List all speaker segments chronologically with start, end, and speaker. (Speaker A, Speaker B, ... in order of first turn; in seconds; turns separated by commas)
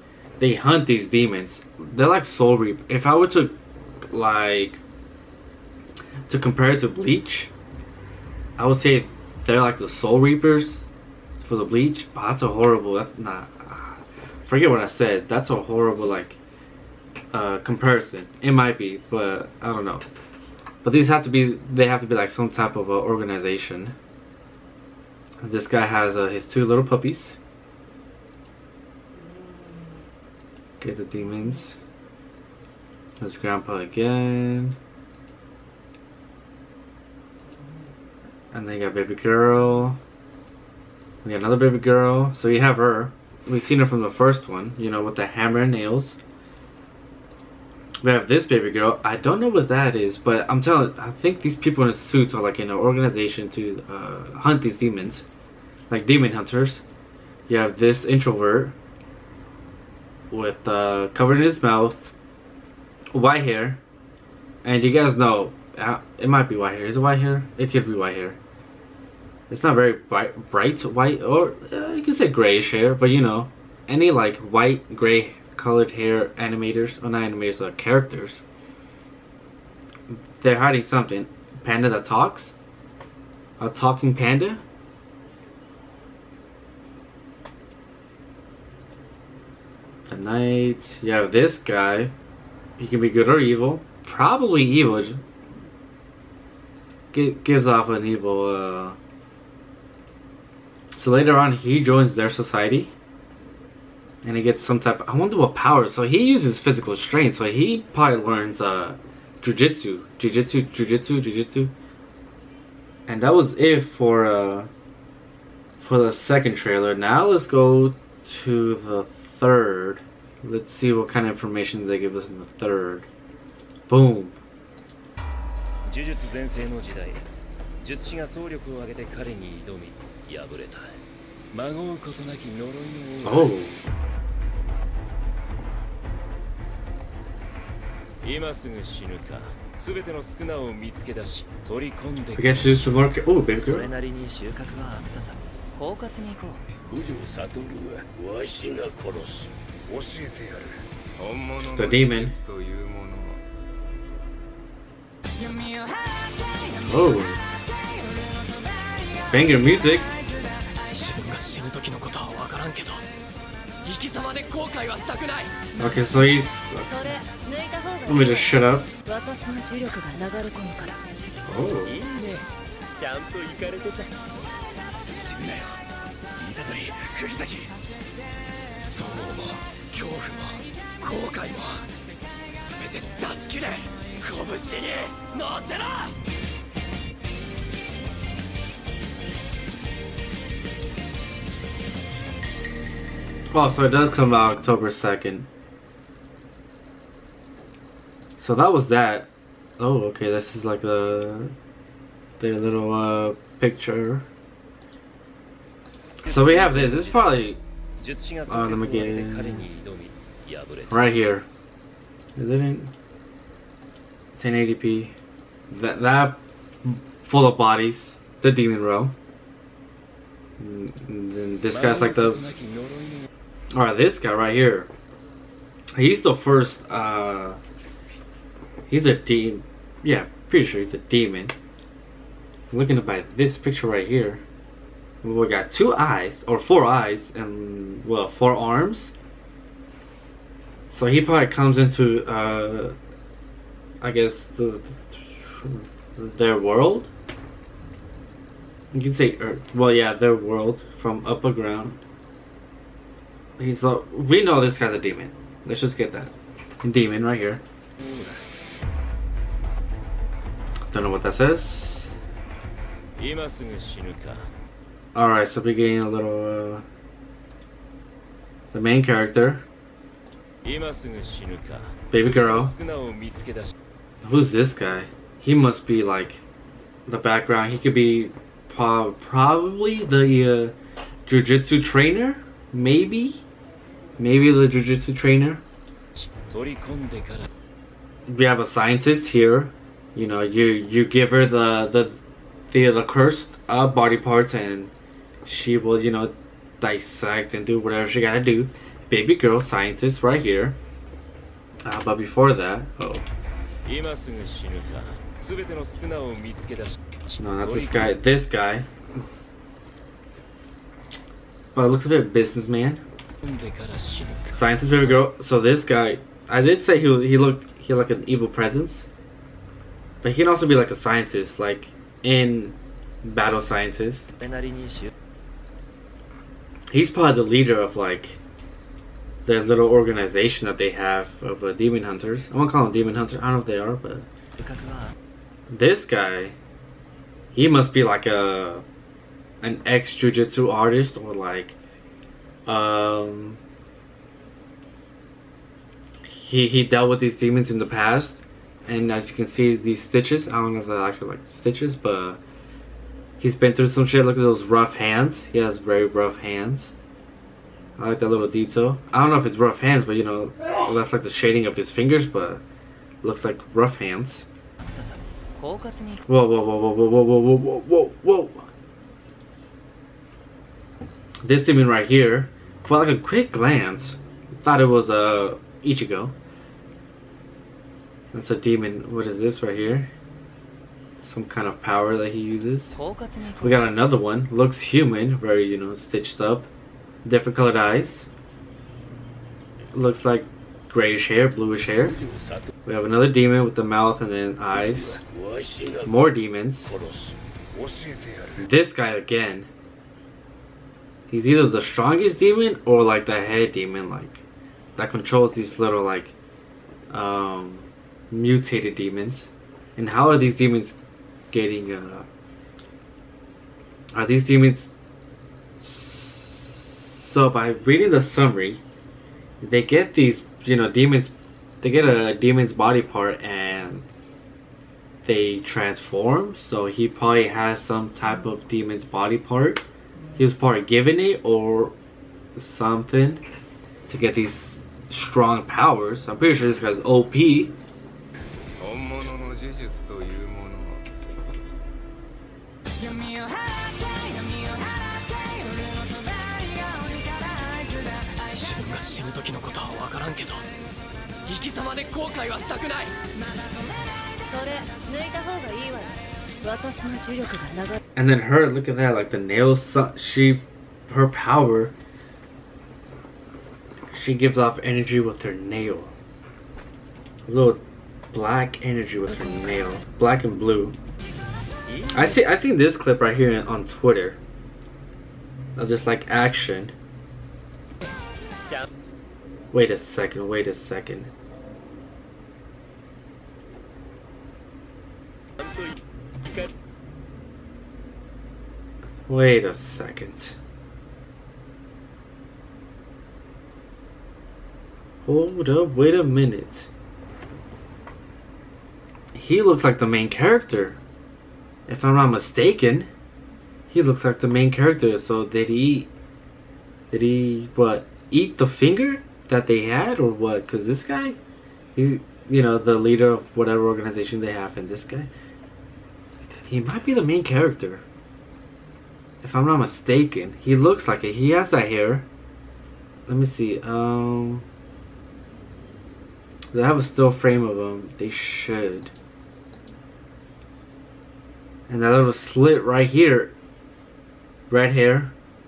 Speaker A: 0.4-3.6, Speaker A: 4.1-4.8, Speaker A: 6.3-7.5, Speaker A: 8.6-10.9, Speaker A: 11.4-16.4, Speaker A: 17.3-20.1, Speaker A: 20.8-23.9, Speaker A: 25.4-27.4, Speaker A: 30.8-31.8, Speaker A: 33.2-34.8, Speaker A: 38.5-40.0, Speaker A: 41.2-46.2, Speaker A: 48.0-55.2, Speaker A: 55.9-56.8, Speaker A: 57.5-58.8, Speaker A: 60.3-62.1, Speaker A: 63.1-63.8, Speaker A: 64.6-68.4, Speaker A: 69.5-78.4, Speaker A: 80.1-82.5, Speaker A: 83.6-84.6, Speaker A: 90.1-92.1, Speaker A: 92.8-95.2, Speaker A: 97.1-99.0, Speaker A: 101.0-102.9, Speaker A: 104.2-111.7, Speaker A: 113.1-114.7, Speaker A: 115.8-123.1, Speaker A: 123.9-124.4, Speaker B: 125.8-127.3, Speaker B: 127.8-131.0, Speaker B: 131.5-133.5, Speaker A: 133.2-133.8, Speaker B: 138.2-149.5, Speaker A: 142.4-143.9, Speaker C: 149.9-153.4, Speaker A: 151.7-152.3, Speaker A: 156.8-157.4, Speaker A: 159.3-160.1, Speaker D: 160.9-163.1, Speaker D: 163.8-165.5, Speaker A: 165.8-166.9, Speaker E: 166.8-171.0, Speaker A: 168.1-168.9, Speaker A: 171.4-172.0, Speaker B: 171.8-174.1, Speaker D: 175.1-175.8, Speaker D: 176.4-177.8, Speaker D: 178.9-181.9, Speaker D: 182.4-186.1, Speaker A: 193.5-195.5, Speaker A: 198.4-201.5, Speaker A: 202.4-204.3, Speaker B: 206.2-207.4, Speaker A: 206.2-207.6, Speaker B: 208.0-211.0, Speaker A: 208.5-209.7, Speaker A: 210.9-211.5, Speaker A: 212.4-212.9, Speaker A: 214.4-215.1, Speaker A: 215.7-219.2, Speaker A: 220.6-222.4, Speaker B: 221.7-223.3, Speaker A: 223.8-224.9, Speaker A: 226.0-227.6, Speaker A: 228.9-231.6, Speaker A: 232.7-234.4, Speaker A: 235.2-239.1, Speaker A: 240.9-243.0, Speaker A: 244.0-247.1, Speaker A: 248.9-252.0, Speaker A: 253.6-257.6, Speaker B: 258.0-258.4, Speaker A: 260.9-262.1, Speaker B: 263.2-264.4, Speaker A: 265.1-266.9, Speaker A: 268.7-269.6, Speaker B: 270.6-273.7, Speaker A: 272.1-272.7, Speaker A: 274.2-276.4, Speaker A: 277.1-283.5, Speaker A: 284.2-285.6, Speaker B: 286.3-287.5, Speaker A: 288.3-292.2, Speaker A: 292.7-294.9, Speaker A: 295.4-300.8, Speaker A: 301.9-303.3, Speaker B: 303.9-308.1, Speaker A: 307.4-308.9, Speaker A: 311.8-313.0, Speaker B: 313.4-315.2, Speaker A: 314.5-319.1, Speaker A: 320.2-324.3, Speaker B: 324.4-325.1, Speaker A: 326.9-328.4, Speaker A: 329.4-334.3, Speaker B: 334.6-335.1, Speaker A: 335.7-336.6, Speaker A: 337.5-338.8, Speaker A: 339.6-341.8, Speaker A: 342.7-343.6, Speaker A: 346.3-352.4, Speaker A: 353.4-356.9, Speaker A: 358.0-362.6, Speaker A: 363.2-364.5, Speaker B: 364.8-366.2, Speaker A: 366.3-368.7, Speaker A: 371.4-376.3, Speaker A: 378.3-380.1, Speaker A: 381.2-382.9, Speaker B: 382.9-383.8, Speaker A: 383.6-386.7, Speaker A: 387.2-388.3, Speaker A: 389.9-392.2, Speaker A: 392.8-395.2, Speaker A: 396.0-397.0, Speaker C: 397.7-398.6, Speaker A: 398.6-399.7, Speaker A: 401.3-404.4, Speaker A: 405.0-406.4, Speaker A: 407.1-411.0, Speaker A: 411.5-412.3, Speaker A: 414.1-414.9, Speaker A: 415.8-418.8, Speaker A: 419.6-424.1, Speaker A: 425.2-429.9, Speaker A: 430.4-431.9, Speaker A: 432.6-433.4, Speaker A: 434.1-437.8, Speaker C: 438.8-441.1, Speaker D: 448.5-450.7, Speaker D: 451.4-453.1, Speaker E: 454.4-458.0, Speaker A: 458.2-461.9, Speaker A: 464.1-466.1, Speaker A: 467.5-471.0, Speaker B: 471.9-472.2, Speaker A: 472.1-474.4, Speaker A: 475.8-476.9, Speaker A: 479.7-481.3, Speaker A: 489.3-490.6, Speaker A: 495.2-496.9, Speaker A: 499.3-501.0, Speaker A: 501.9-503.1, Speaker A: 503.9-506.1, Speaker A: 507.1-511.4, Speaker A: 511.9-515.3, Speaker A: 516.7-518.0, Speaker A: 519.4-522.3, Speaker A: 523.3-524.7, Speaker A: 526.7-529.1, Speaker A: 531.9-533.5, Speaker A: 534.7-535.3